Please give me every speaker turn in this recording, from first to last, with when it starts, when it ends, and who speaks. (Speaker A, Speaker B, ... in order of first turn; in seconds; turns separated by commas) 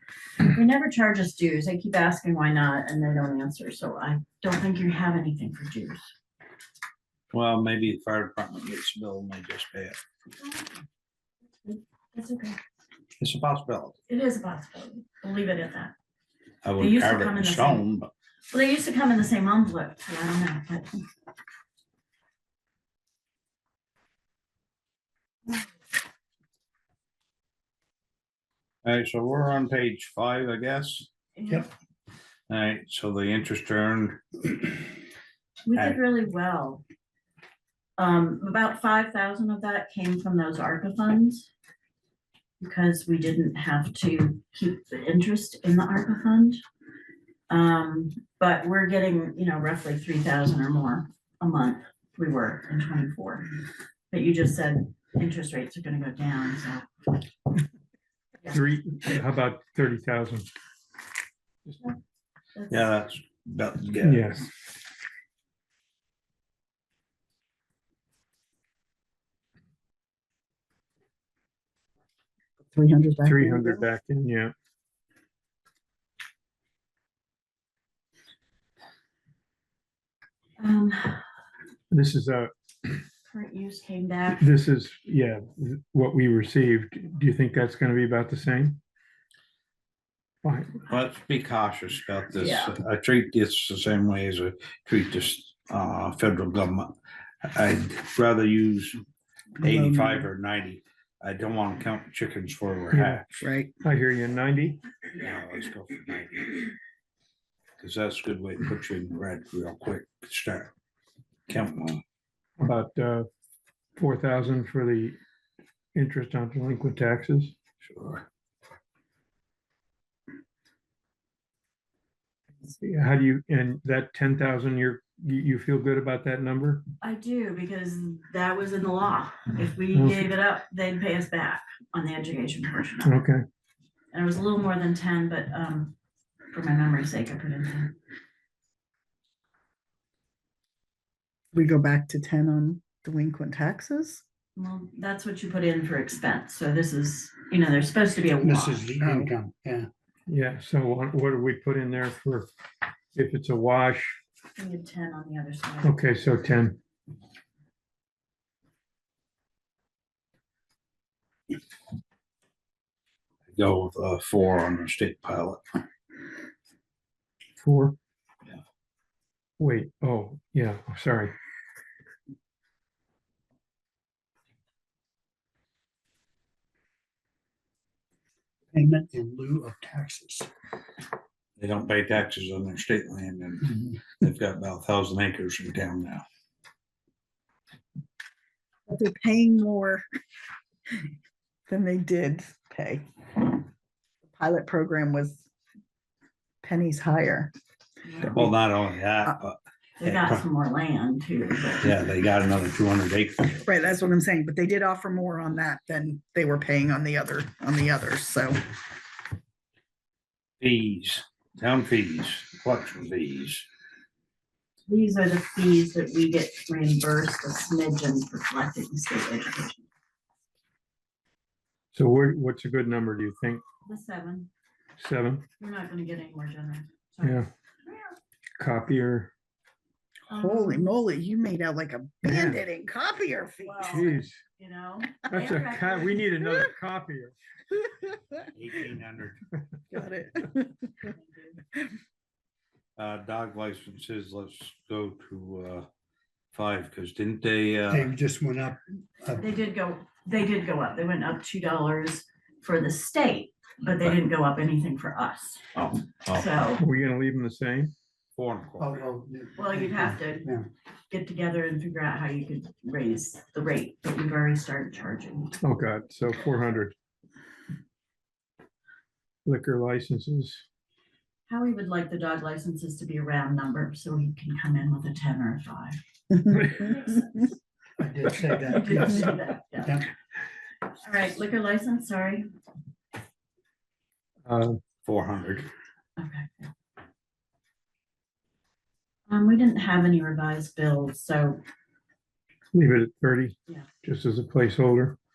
Speaker A: 0.5-6.0, Speaker B: 7.3-10.0, Speaker A: 10.4-10.8, Speaker A: 11.6-12.6, Speaker B: 13.2-14.0, Speaker A: 14.1-15.9, Speaker B: 16.6-18.1, Speaker A: 16.8-17.9, Speaker A: 18.5-20.9, Speaker B: 28.9-31.1, Speaker A: 31.4-31.7, Speaker B: 32.5-34.2, Speaker A: 35.7-36.8, Speaker A: 38.0-41.5, Speaker A: 42.6-46.6, Speaker A: 47.5-53.5, Speaker A: 54.1-56.9, Speaker C: 58.5-60.5, Speaker A: 62.5-62.9, Speaker B: 62.7-64.4, Speaker C: 64.0-64.5, Speaker D: 72.7-73.8, Speaker C: 73.2-74.5, Speaker A: 80.6-81.2, Speaker C: 81.9-82.5, Speaker A: 83.3-84.5, Speaker C: 84.4-88.8, Speaker C: 90.4-90.8, Speaker B: 90.9-96.9, Speaker A: 92.4-92.7, Speaker B: 97.5-99.0, Speaker B: 99.6-103.5, Speaker D: 99.6-100.3, Speaker C: 102.9-103.3, Speaker D: 103.4-103.7, Speaker C: 103.8-104.8, Speaker B: 105.1-106.7, Speaker B: 107.8-110.7, Speaker B: 111.5-112.0, Speaker C: 112.6-113.3, Speaker C: 114.0-115.2, Speaker C: 115.9-117.5, Speaker B: 117.8-118.2, Speaker C: 122.6-126.8, Speaker A: 127.0-133.2, Speaker C: 129.9-130.2, Speaker C: 133.1-133.4, Speaker A: 134.1-135.9, Speaker A: 136.5-137.9, Speaker D: 141.5-144.2, Speaker A: 144.6-148.9, Speaker E: 148.4-149.9, Speaker D: 149.0-149.3, Speaker C: 150.3-152.5, Speaker C: 153.2-154.2, Speaker A: 154.6-156.0, Speaker C: 155.8-156.8, Speaker B: 163.5-165.8, Speaker C: 167.6-168.0, Speaker C: 169.6-171.3, Speaker E: 178.7-180.5, Speaker B: 181.6-186.2, Speaker D: 188.9-190.0, Speaker D: 191.7-193.5, Speaker D: 194.3-195.4, Speaker D: 196.6-197.5, Speaker A: 198.0-198.5, Speaker D: 198.2-198.5, Speaker B: 198.2-200.4, Speaker A: 200.0-202.0, Speaker B: 201.8-203.6, Speaker D: 203.7-208.6, Speaker B: 210.6-213.7, Speaker A: 214.9-219.8, Speaker C: 221.9-223.6, Speaker A: 223.9-224.5, Speaker C: 225.0-225.5, Speaker A: 225.6-228.2, Speaker C: 227.2-227.5, Speaker C: 228.6-229.3, Speaker A: 230.3-230.9, Speaker D: 230.3-234.2, Speaker C: 232.3-232.6, Speaker A: 233.6-236.2, Speaker C: 233.9-234.4, Speaker C: 235.3-237.4, Speaker B: 238.5-239.4, Speaker D: 239.9-241.1, Speaker A: 241.0-241.6, Speaker B: 243.0-245.9, Speaker B: 246.5-248.1, Speaker E: 247.9-249.4, Speaker A: 249.4-255.7, Speaker B: 255.8-256.5, Speaker A: 256.3-256.8, Speaker C: 256.8-257.9, Speaker B: 258.4-259.0, Speaker E: 258.8-260.7, Speaker A: 259.6-260.5, Speaker A: 261.1-265.6, Speaker C: 265.6-266.9, Speaker C: 269.5-270.6, Speaker A: 271.5-276.0, Speaker C: 276.5-276.9, Speaker A: 276.7-277.6, Speaker E: 278.0-280.1, Speaker A: 278.6-280.0, Speaker A: 281.0-282.5, Speaker C: 284.5-284.8, Speaker B: 285.1-285.7, Speaker A: 286.2-286.7, Speaker A: 289.3-291.6, Speaker C: 292.7-295.2